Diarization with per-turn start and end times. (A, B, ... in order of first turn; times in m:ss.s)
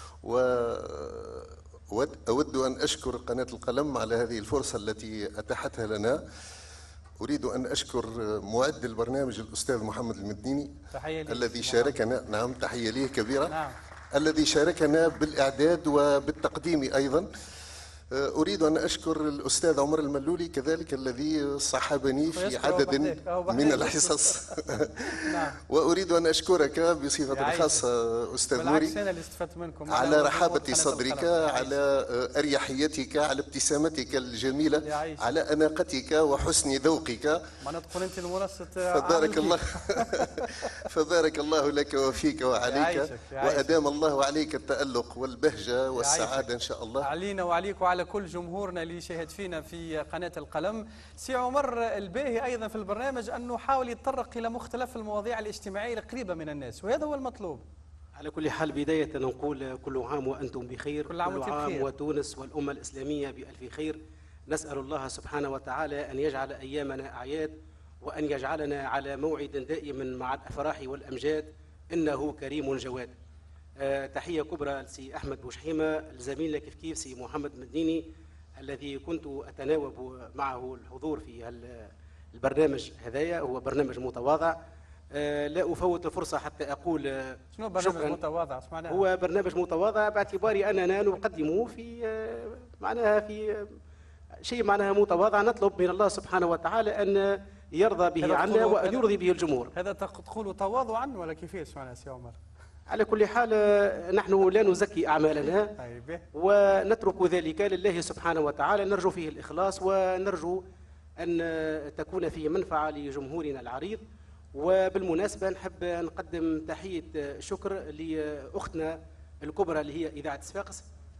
0:00.2-0:06.2 A
0:07.2-0:10.7 A
0:10.9-0:12.0 B
0:11.3-0:13.6 A
0:13.5-0:13.7 B
0:14.2-0:17.3 A
0:18.1-0:29.0 A
0:22.3-0:24.3 B
0:25.3-0:25.6 B
0:27.3-0:27.8 B
0:28.5-0:31.7 B
0:29.9-0:37.4 A
0:34.9-0:35.2 B
0:37.6-0:40.2 B
0:38.9-0:40.3 A
0:40.9-0:47.1 A
0:42.6-0:43.7 B
0:46.0-0:46.5 B
0:47.0-0:57.6 B
0:58.2-1:13.1 C
1:01.1-1:01.9 B
1:13.8-1:18.0 C
1:18.6-1:24.6 C
1:25.1-1:28.2 C
1:27.6-1:29.0 B
1:28.9-1:33.8 C
1:34.4-1:39.7 C
1:38.2-1:39.0 B
1:39.7-1:42.4 B
1:42.9-1:45.7 C
1:45.8-1:46.2 B
1:46.4-1:50.6 C
1:51.2-1:54.0 C
1:54.5-2:00.8 C